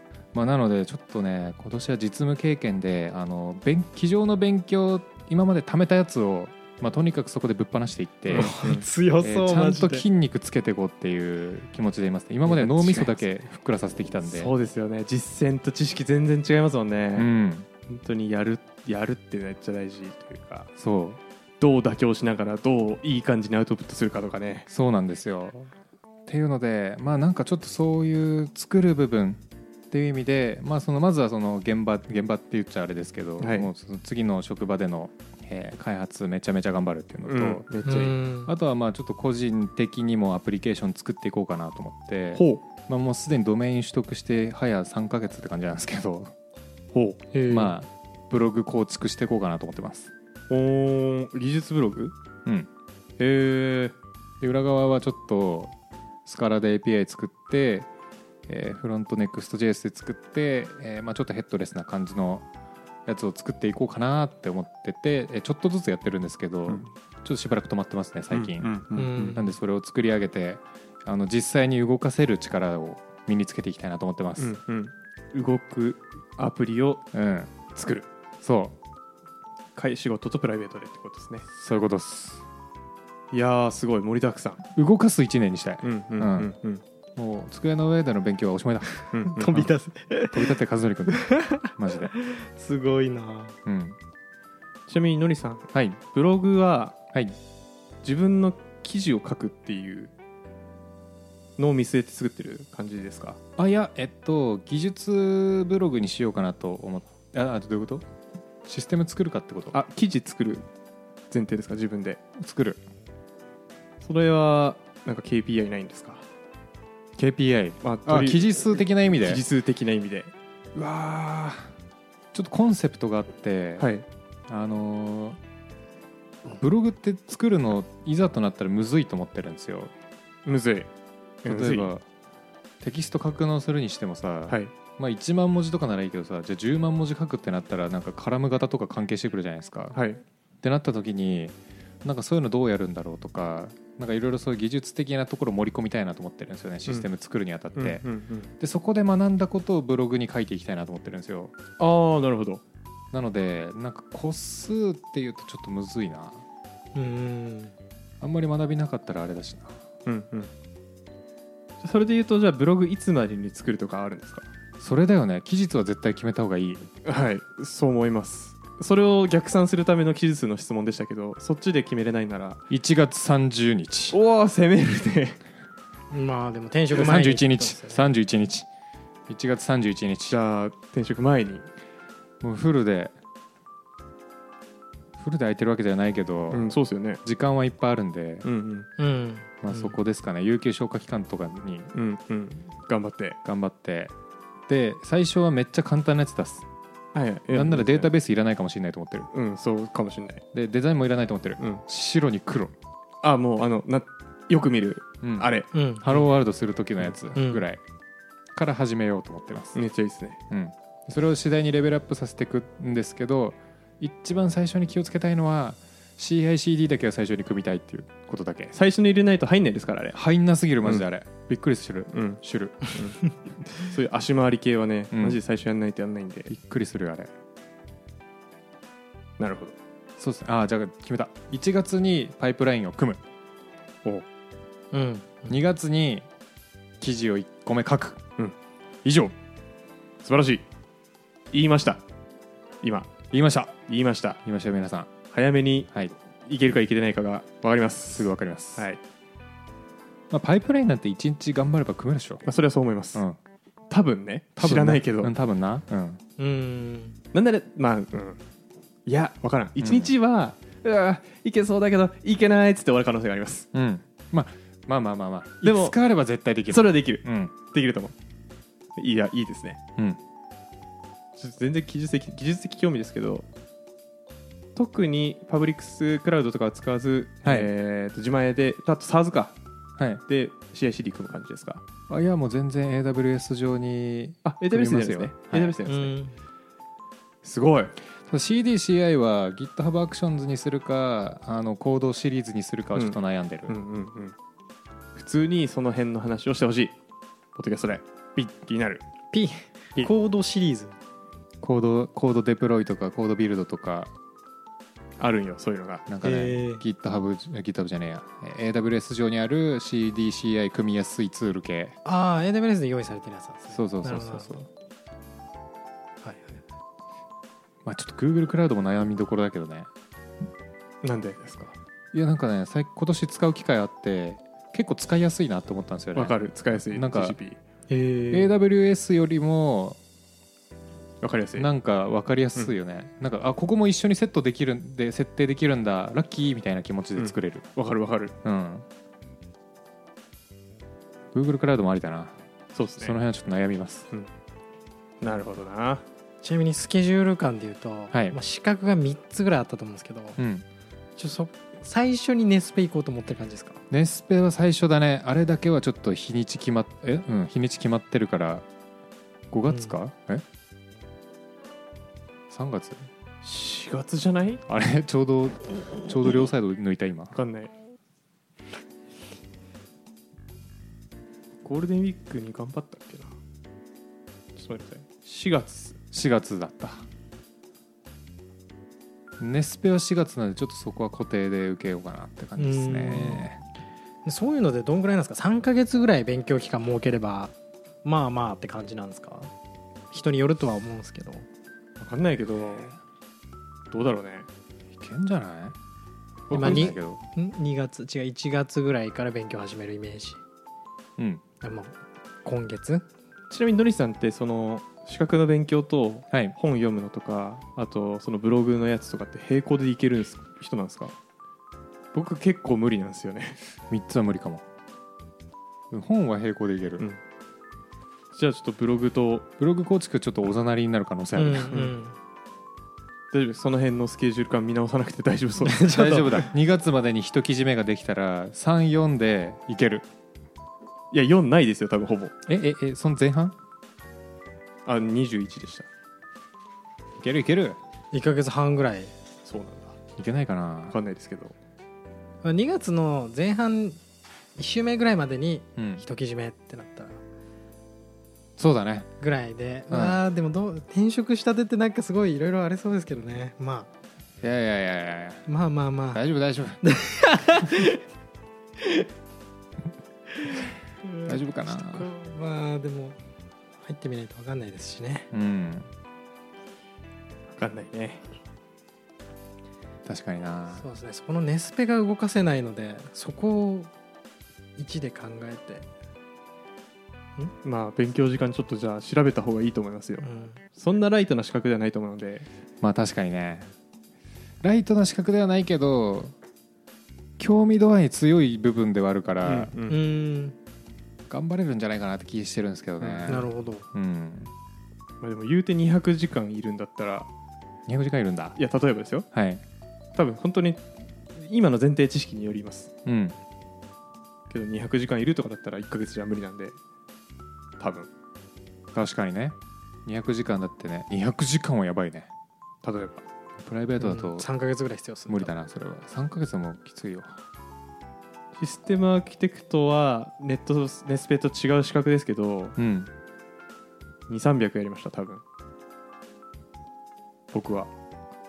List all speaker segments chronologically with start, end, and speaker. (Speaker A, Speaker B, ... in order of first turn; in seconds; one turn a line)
Speaker A: 0.3-8.6
Speaker B: 8.3-8.8
Speaker C: 8.3-10.0
Speaker A: 9.2-14.5
Speaker B: 12.4-13.2
Speaker B: 14.2-17.3
Speaker A: 17.1-17.7
Speaker B: 17.9-20.7
Speaker A: 20.8-21.2
Speaker B: 21.6-24.7
Speaker A: 24.7-25.7
Speaker A: 26.3-37.6
Speaker B: 33.4-33.7
Speaker B: 37.2-38.1
Speaker C: 37.8-38.5
Speaker A: 38.5-46.3
Speaker B: 42.3-42.6
Speaker B: 46.9-47.2
Speaker C: 47.3-47.7
Speaker A: 47.5-50.1
Speaker B: 50.5-52.1
Speaker B: 53.2-54.0
Speaker A: 54.4-55.7
Speaker A: 56.2-57.9
Speaker A: 58.5-62.5
Speaker A: 63.0-74.5
Speaker B: 68.3-69.4
Speaker C: 68.9-69.5
Speaker B: 74.4-77.0
Speaker A: 77.1-77.5
Speaker B: 77.7-78.0
Speaker A: 78.4-78.7
Speaker B: 79.8-81.5
Speaker A: 81.5-82.4
Speaker B: 83.3-84.6
Speaker A: 84.7-86.5
Speaker B: 85.8-86.8
Speaker A: 87.2-89.7
Speaker B: 89.1-89.7
Speaker C: 89.3-90.5
Speaker A: 90.3-92.1
Speaker C: 91.1-93.5
Speaker A: 93.6-94.0
Speaker B: 94.9-97.0
Speaker A: 95.7-96.0
Speaker B: 98.0-100.1
Speaker B: 101.6-103.4
Speaker A: 103.6-108.0
Speaker A: 108.6-109.8
Speaker B: 109.7-110.7
Speaker B: 111.3-112.2
Speaker A: 112.4-112.8
Speaker B: 114.0-116.2
Speaker A: 117.2-119.4
Speaker B: 117.8-118.6
Speaker B: 119.2-120.3
Speaker A: 120.7-121.7
Speaker A: 122.3-123.9
Speaker B: 123.8-124.0
Speaker A: 124.5-125.4
Speaker A: 126.5-129.9
Speaker B: 130.4-130.9
Speaker B: 131.4-131.9
Speaker A: 131.4-132.0
Speaker A: 132.8-140.0
Speaker B: 139.9-140.2
Speaker A: 140.6-148.0
Speaker B: 147.7-148.5
Speaker A: 148.6-151.5
Speaker B: 151.8-152.6
Speaker A: 153.1-156.4
Speaker C: 156.9-157.7
Speaker A: 158.2-159.8
Speaker B: 160.1-160.5
Speaker B: 161.8-164.4
Speaker A: 164.8-166.9
Speaker B: 167.0-172.6
Speaker A: 172.7-174.2
Speaker B: 174.1-175.4
Speaker C: 176.1-178.0
Speaker A: 176.9-178.7
Speaker A: 179.3-180.4
Speaker B: 180.3-181.7
Speaker A: 182.4-183.1
Speaker A: 185.2-186.7
Speaker B: 186.5-187.2
Speaker A: 187.2-188.4
Speaker B: 188.4-188.9
Speaker C: 189.0-189.9
Speaker A: 189.6-191.9
Speaker B: 191.9-193.4
Speaker A: 193.4-194.1
Speaker A: 194.7-196.7
Speaker B: 197.1-198.1
Speaker A: 197.5-199.3
Speaker B: 199.3-200.4
Speaker A: 200.5-202.7
Speaker B: 203.2-205.7
Speaker A: 205.2-207.8
Speaker C: 205.7-206.1
Speaker C: 207.3-207.6
Speaker A: 208.5-209.8
Speaker B: 209.7-210.4
Speaker A: 210.5-218.7
Speaker B: 218.7-220.2
Speaker A: 220.1-222.8
Speaker B: 222.1-226.5
Speaker A: 225.1-225.4
Speaker A: 226.5-227.3
Speaker B: 229.4-229.7
Speaker A: 230.2-233.2
Speaker C: 234.9-235.6
Speaker A: 235.5-236.2
Speaker A: 237.0-238.2
Speaker A: 239.0-239.3
Speaker B: 240.2-240.6
Speaker B: 241.5-242.0
Speaker B: 242.8-243.1
Speaker A: 243.3-243.8
Speaker B: 243.9-244.4
Speaker A: 244.4-245.1
Speaker B: 245.3-245.9
Speaker B: 246.4-249.0
Speaker A: 248.1-248.9
Speaker A: 250.3-252.4
Speaker B: 252.4-253.2
Speaker B: 253.9-255.3
Speaker A: 254.6-256.2
Speaker C: 256.4-257.2
Speaker B: 257.3-258.4
Speaker B: 259.1-263.7
Speaker A: 259.8-260.1
Speaker A: 263.7-267.5
Speaker B: 265.6-265.9
Speaker B: 266.7-268.1
Speaker B: 268.9-269.8
Speaker B: 271.4-273.4
Speaker B: 274.8-279.6
Speaker A: 277.4-277.7
Speaker B: 280.3-281.8
Speaker A: 282.1-285.8
Speaker B: 284.4-286.1
Speaker C: 285.9-286.3
Speaker B: 287.4-287.9
Speaker A: 288.3-293.7
Speaker B: 292.9-294.4
Speaker B: 295.1-296.9
Speaker B: 297.5-299.0
Speaker C: 299.3-300.9
Speaker A: 301.6-304.1
Speaker B: 305.2-306.0
Speaker A: 306.1-311.9
Speaker C: 306.2-306.8
Speaker C: 312.0-314.6
Speaker A: 313.7-314.6
Speaker C: 316.2-316.6
Speaker A: 317.8-319.9
Speaker B: 321.0-321.7
Speaker A: 322.1-326.4
Speaker B: 326.1-327.6
Speaker A: 326.9-327.4
Speaker C: 327.9-328.5
Speaker A: 328.3-330.0
Speaker B: 331.2-331.7
Speaker A: 331.6-337.7
Speaker B: 337.2-338.3
Speaker A: 338.4-338.9
Speaker A: 341.3-342.4
Speaker B: 342.7-343.2
Speaker A: 343.0-344.1
Speaker B: 345.2-346.0
Speaker C: 346.4-350.4
Speaker A: 348.1-348.4
Speaker A: 350.4-350.6
Speaker C: 351.2-353.8
Speaker A: 353.9-358.6
Speaker A: 359.5-360.4
Speaker C: 359.7-359.9
Speaker A: 362.5-363.0
Speaker B: 363.4-364.6
Speaker A: 364.7-367.4
Speaker B: 367.3-367.7
Speaker B: 371.6-373.3
Speaker B: 374.5-376.0
Speaker A: 376.1-377.0
Speaker A: 379.4-383.6
Speaker C: 382.6-383.5
Speaker C: 384.2-387.5
Speaker C: 388.0-389.5
Speaker C: 390.1-391.4
Speaker B: 392.0-392.9
Speaker B: 393.9-394.5
Speaker A: 394.9-395.8
Speaker A: 396.5-397.2
Speaker B: 396.5-396.9
Speaker C: 396.5-400.4
Speaker A: 401.2-401.4
Speaker C: 401.6-403.0
Speaker B: 403.5-411.1
Speaker B: 412.1-413.6
Speaker A: 413.9-414.6
Speaker A: 415.9-417.0
Speaker B: 418.3-419.5
Speaker A: 419.6-421.8
Speaker C: 421.4-422.1
Speaker B: 421.7-421.9
Speaker B: 423.3-426.0
Speaker C: 425.6-426.4
Speaker A: 425.9-430.1
Speaker B: 431.1-432.3
Speaker A: 432.4-433.6
Speaker B: 434.9-435.9
Speaker A: 437.2-437.8
Speaker C: 438.1-439.1
Speaker B: 439.4-439.9
Speaker A: 440.2-441.0
Speaker B: 440.9-441.5
Speaker C: 442.4-444.0
Speaker C: 444.6-447.2
Speaker A: 445.8-446.0
Speaker A: 448.6-449.1
Speaker C: 449.2-453.9
Speaker A: 449.9-450.2
Speaker A: 454.4-455.4
Speaker C: 455.5-456.2
Speaker A: 456.1-456.8
Speaker C: 456.8-458.0
Speaker C: 461.0-463.2
Speaker A: 461.2-462.1
Speaker C: 463.8-465.3
Speaker A: 465.3-465.9
Speaker B: 467.6-468.2
Speaker A: 470.1-470.8
Speaker C: 470.7-473.9
Speaker C: 474.8-475.9
Speaker B: 477.6-482.4
Speaker C: 480.2-480.6
Speaker A: 482.8-483.7
Speaker A: 484.6-486.3
Speaker A: 487.4-489.7
Speaker B: 489.4-490.0
Speaker C: 489.9-490.5
Speaker A: 491.3-494.5
Speaker B: 493.0-493.3
Speaker C: 493.3-493.8
Speaker B: 495.2-497.3
Speaker A: 497.9-498.6
Speaker B: 498.6-499.3
Speaker A: 499.3-499.6
Speaker B: 500.1-502.9
Speaker A: 503.0-503.4
Speaker B: 504.5-506.8
Speaker B: 507.8-508.1
Speaker A: 508.9-512.3
Speaker B: 512.8-513.2
Speaker A: 513.6-514.5
Speaker C: 514.0-515.5
Speaker A: 515.3-517.3
Speaker B: 518.6-522.8
Speaker A: 522.8-523.1
Speaker B: 524.3-525.4
Speaker B: 527.5-527.9